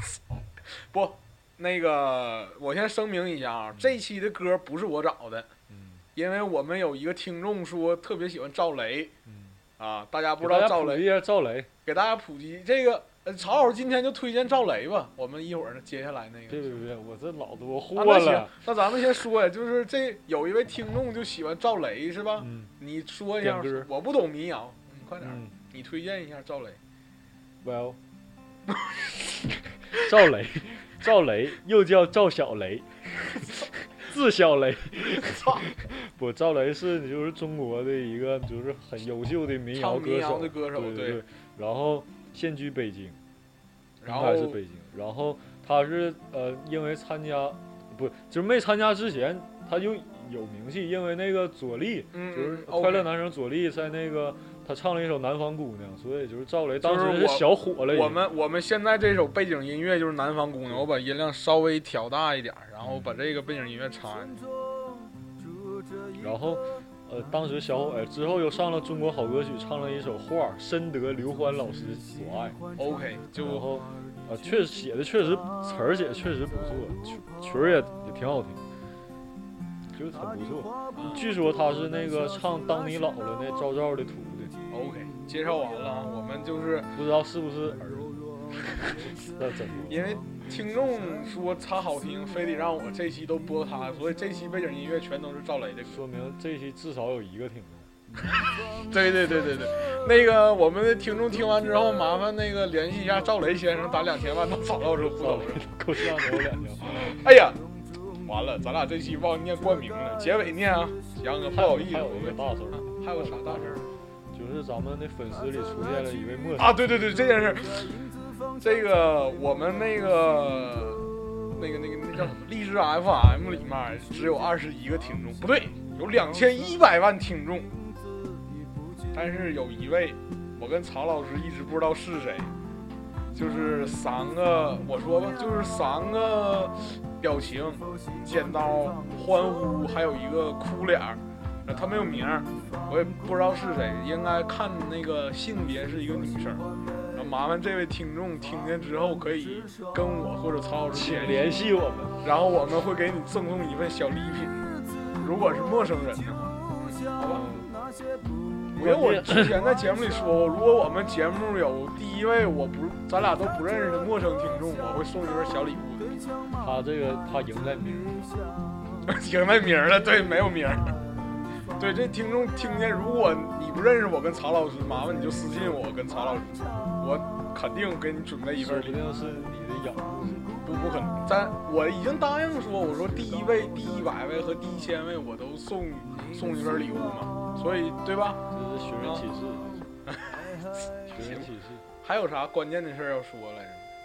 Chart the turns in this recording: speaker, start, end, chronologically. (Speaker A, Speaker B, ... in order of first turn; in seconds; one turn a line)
Speaker A: 0.9-5.5
Speaker B: 5.7-6.0
Speaker A: 6.1-9.1
Speaker B: 9.2-9.6
Speaker A: 9.8-11.1
Speaker B: 10.4-11.7
Speaker A: 11.8-16.8
Speaker B: 16.5-18.5
Speaker A: 17.9-26.8
Speaker B: 22.4-22.7
Speaker B: 23.4-23.9
Speaker B: 25.2-25.5
Speaker B: 27.6-28.0
Speaker B: 29.9-33.0
Speaker B: 33.9-43.2
Speaker A: 39.7-41.2
Speaker A: 44.0-44.6
Speaker B: 44.0-58.2
Speaker A: 52.1-53.1
Speaker A: 56.8-64.4
Speaker B: 62.8-63.1
Speaker B: 66.2-72.6
Speaker A: 72.8-73.7
Speaker B: 73.3-78.6
Speaker B: 79.9-84.5
Speaker A: 80.9-81.2
Speaker A: 84.7-86.9
Speaker B: 86.9-88.2
Speaker B: 88.8-90.0
Speaker A: 89.9-96.0
Speaker B: 95.9-97.9
Speaker A: 98.3-105.7
Speaker B: 104.9-107.2
Speaker A: 107.0-107.6
Speaker A: 108.2-113.9
Speaker B: 111.5-113.8
Speaker B: 114.3-116.9
Speaker A: 116.6-118.0
Speaker A: 118.6-127.7
Speaker A: 129.1-132.5
Speaker A: 133.3-151.5
Speaker B: 150.9-152.2
Speaker A: 152.2-154.6
Speaker A: 155.2-157.5
Speaker B: 157.3-157.7
Speaker A: 158.7-166.2
Speaker B: 158.8-159.6
Speaker B: 166.6-168.3
Speaker A: 169.1-170.9
Speaker A: 171.7-179.0
Speaker B: 178.6-180.5
Speaker A: 180.6-188.4
Speaker B: 188.5-189.8
Speaker A: 190.1-190.5
Speaker B: 191.1-191.8
Speaker A: 191.2-191.5
Speaker A: 192.0-193.9